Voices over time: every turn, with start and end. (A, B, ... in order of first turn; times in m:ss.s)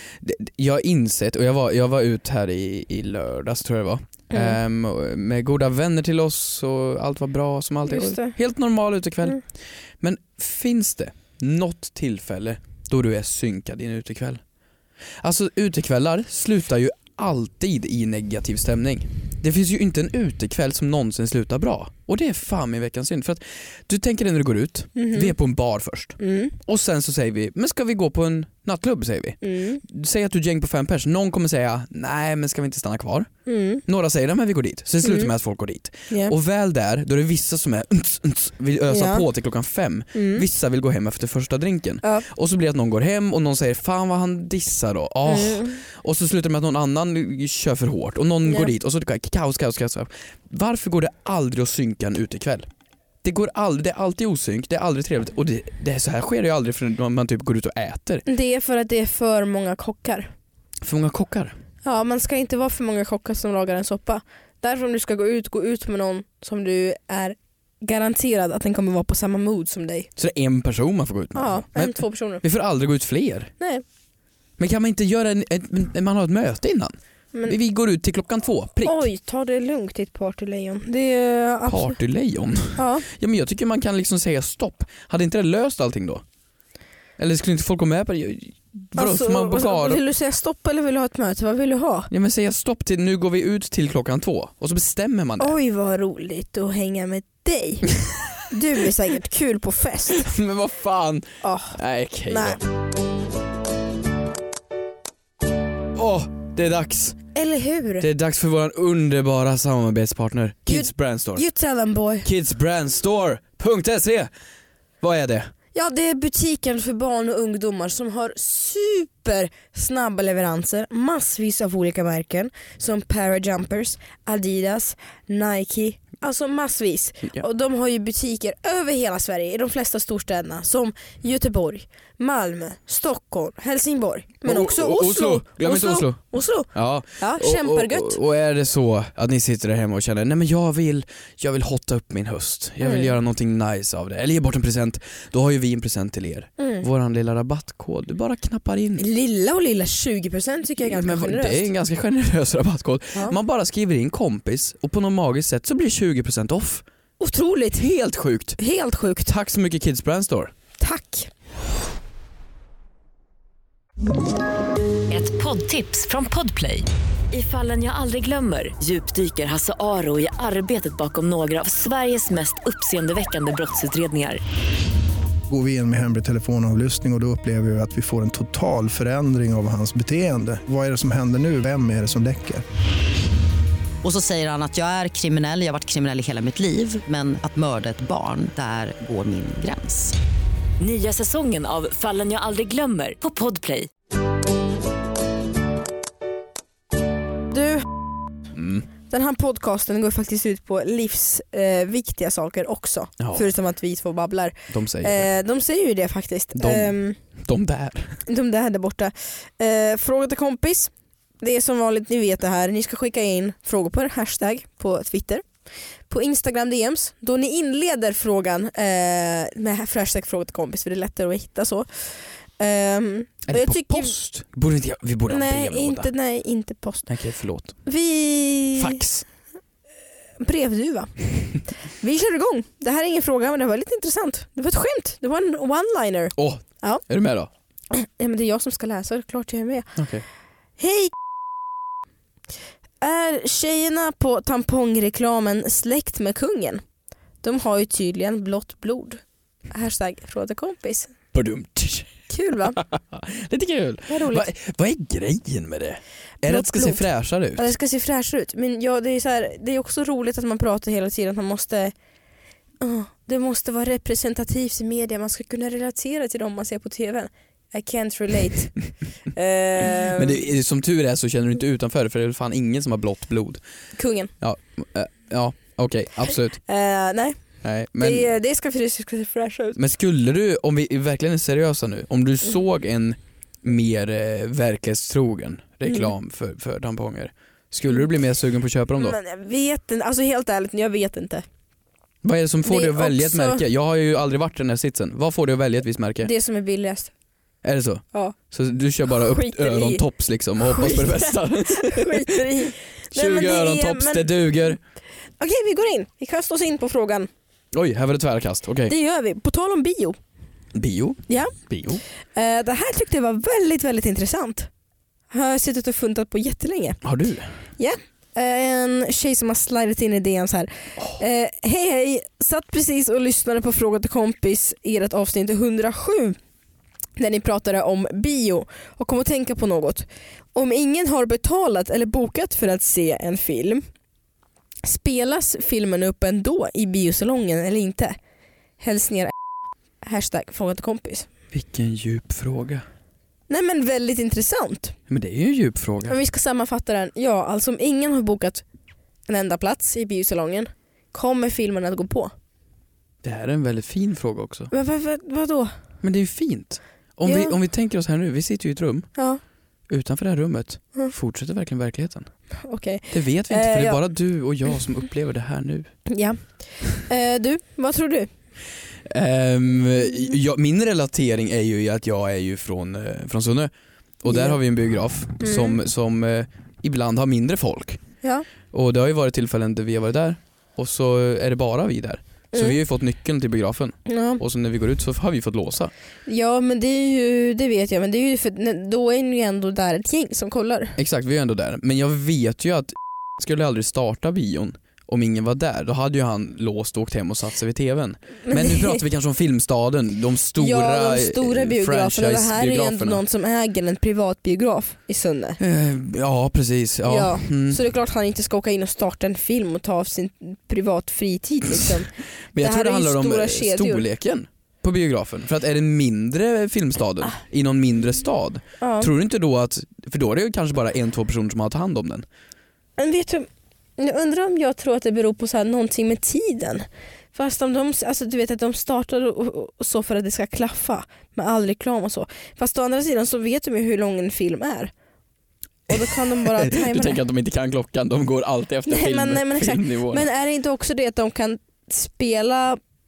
0:00.2-0:09.4 A
0:04.3-0:04.6 B
0:07.9-0:08.4 B
0:10.0-0:14.4 A
0:15.2-0:33.3 A
0:25.0-0:25.3 B
0:26.2-0:26.6 B
0:29.4-0:29.8 B
0:33.5-0:33.8 B
0:33.8-0:52.7 A
0:35.0-0:35.3 B
0:38.9-0:39.2 B
0:40.1-0:40.4 B
0:45.3-0:45.8 B
0:48.5-0:48.7 B
0:53.2-0:58.2 A
0:58.3-1:00.3 B
1:00.8-1:01.6 A
1:01.8-1:10.1 B
1:10.2-1:13.5 A
1:11.4-1:12.4 B
1:14.6-1:19.0 A
1:18.8-1:22.0 B
1:21.7-1:26.2 A
1:22.8-1:23.1 B
1:27.2-1:30.0 A
1:29.0-1:32.1 B
1:32.1-1:35.5 A
1:35.4-1:37.9 B
1:38.5-1:40.3 B
1:40.2-1:42.6 A
1:41.4-1:42.6 B
1:45.9-1:47.2 A
1:47.4-1:48.1 B
1:48.0-1:51.4 A
1:50.7-1:52.3 B
1:52.2-1:54.3 A
1:55.0-1:55.5 A
1:55.7-2:18.2 B
2:14.4-2:29.0 A
2:22.8-2:23.1 B
2:26.6-2:26.9 B
2:29.0-2:31.7 B
2:30.8-2:36.8 A
2:37.2-2:37.8 B
2:37.8-2:38.6 A
2:38.6-2:39.3 B
2:39.2-2:40.5 A
2:40.8-2:41.3 B
2:45.1-2:54.4 C
2:55.5-3:02.6 D
3:04.0-3:10.2 E
3:10.8-3:13.9 C
3:17.5-3:17.9 B
3:18.5-3:18.9 A
3:19.1-3:27.2 B
3:23.2-3:23.5 A
3:24.7-3:25.3 A
3:26.6-3:28.2 A
3:28.3-3:35.4 B
3:36.1-3:44.2 B
3:43.5-3:46.1 A
3:45.3-3:47.1 B
3:47.1-3:47.8 A
3:47.8-3:49.0 B
3:48.8-3:49.2 A
3:50.4-3:51.1 B
3:52.0-3:57.0 B
3:56.4-3:57.5 A
3:57.9-3:59.9 B
4:00.0-4:00.2 A
4:00.8-4:01.1 B
4:03.0-4:06.8 B
4:07.4-4:11.1 B
4:11.3-4:12.1 A
4:12.3-4:12.8 B
4:12.8-4:17.7 A
4:14.1-4:14.5 B
4:16.4-4:17.0 B
4:17.6-4:21.9 B
4:22.8-4:28.7 B
4:29.3-4:30.4 B
4:30.1-4:33.6 A
4:34.0-4:34.3 B
4:34.4-4:36.6 A
4:36.7-4:37.4 B
4:37.6-4:38.3 A
4:38.0-4:39.8 B
4:39.8-4:49.2 A
4:45.9-4:46.1 B
4:49.0-4:51.4 B
4:52.2-4:56.3 A
4:52.6-4:53.6 B
4:56.2-4:57.1 B
4:57.6-5:02.6 A
4:59.1-5:00.0 B
5:00.6-5:04.5 B
5:03.1-5:04.8 A
5:05.4-5:07.3 B
5:07.7-5:08.9 A
5:08.9-5:10.2 B
5:10.7-5:12.0 A
5:12.4-5:14.7 B
5:15.3-5:17.0 B
5:17.0-5:17.5 A
5:17.8-5:26.4 B
5:27.2-5:33.8 B
5:34.8-5:38.2 B
5:38.8-5:39.3 B
5:40.0-5:41.3 B
5:41.5-5:42.8 A
5:43.5-5:45.0 B
5:45.1-5:46.2 A
5:46.1-5:48.6 B
5:49.3-5:52.3 B
5:53.2-5:54.7 A
5:54.7-5:55.7 B
5:56.0-5:59.1 A
5:57.2-5:57.6 B
5:59.9-6:02.3 A
6:02.6-6:04.0 B
6:03.1-6:05.9 A
6:06.1-6:08.3 B
6:09.1-6:18.0 A
6:14.3-6:14.6 B
6:15.4-6:15.8 B
6:18.7-6:25.9 A
6:24.1-6:24.4 B
6:26.3-6:31.0 B
6:31.0-6:43.2 A
6:38.5-6:39.0 B
6:40.6-6:45.6 B
6:45.6-6:47.8 A
6:47.0-6:54.1 B
6:52.5-7:02.3 A
6:58.8-6:59.1 B
7:03.0-7:14.9 B
7:15.9-7:17.2 B
7:15.9-7:20.3 A
7:18.9-7:22.8 B